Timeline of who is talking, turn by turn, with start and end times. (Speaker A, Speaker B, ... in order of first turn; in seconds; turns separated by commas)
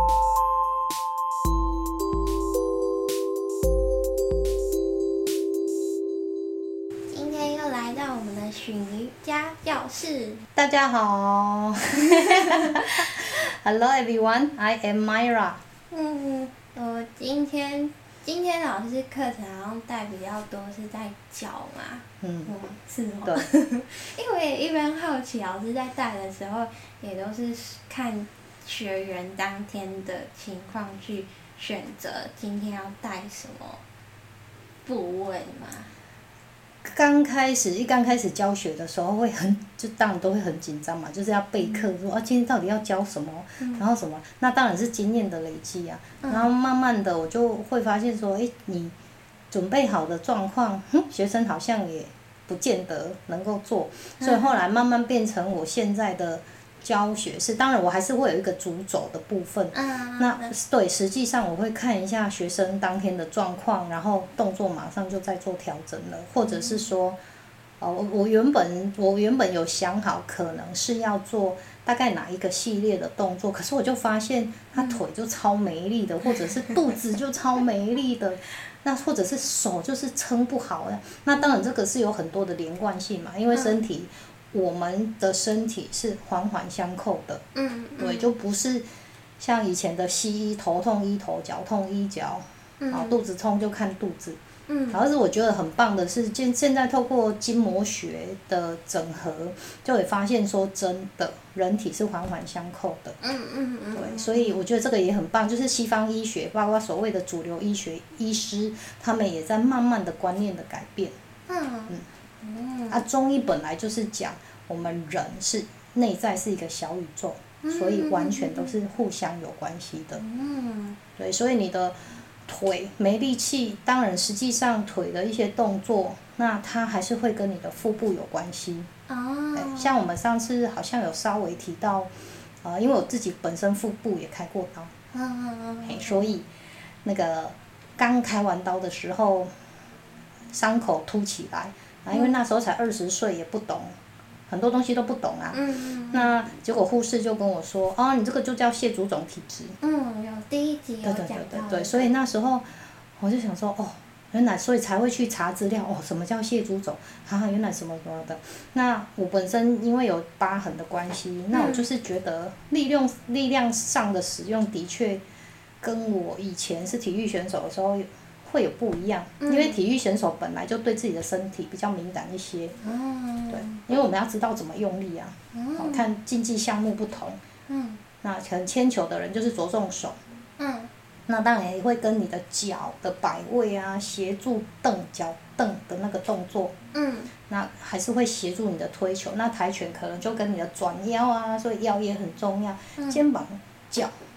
Speaker A: 7.1-10.4, Speaker B: 10.6-15.6, Speaker A: 12.2-12.8, Speaker A: 15.9-33.8, Speaker B: 22.2-22.5, Speaker A: 34.9-35.9, Speaker B: 36.8-48.9, Speaker A: 41.6-41.9, Speaker A: 43.6-43.8, Speaker A: 46.2-46.5, Speaker B: 49.5-67.2, Speaker A: 54.2-54.6, Speaker A: 59.7-60.5, Speaker A: 66.4-66.9, Speaker B: 67.8-87.4, Speaker A: 74.7-75.0, Speaker A: 83.5-83.8, Speaker A: 87.5-88.3, Speaker B: 88.0-88.8, Speaker B: 89.4-94.4, Speaker A: 92.8-93.2, Speaker A: 94.7-95.0, Speaker B: 94.9-103.2, Speaker A: 103.2-104.6, Speaker B: 103.9-111.1, Speaker A: 111.5-113.0, Speaker B: 112.9-120.2, Speaker A: 117.6-118.7, Speaker A: 120.2-121.0, Speaker B: 121.2-128.9, Speaker A: 129.1-129.9, Speaker B: 129.5-132.1, Speaker B: 132.6-134.9, Speaker A: 135.1-136.3, Speaker B: 135.8-136.5, Speaker B: 137.0-139.5, Speaker B: 140.5-143.9, Speaker A: 142.1-142.4, Speaker B: 144.5-145.6, Speaker A: 145.5-146.3, Speaker B: 146.1-149.8, Speaker A: 149.8-152.1, Speaker B: 151.0-165.2, Speaker A: 161.5-161.8, Speaker B: 165.8-172.7, Speaker A: 169.4-169.8, Speaker A: 172.8-173.8, Speaker B: 173.5-177.4, Speaker A: 175.5-176.0, Speaker A: 177.7-178.0, Speaker B: 178.2-180.2, Speaker A: 180.6-180.9, Speaker B: 181.3-186.7, Speaker A: 186.9-187.3, Speaker B: 187.5-194.1, Speaker A: 193.0-193.2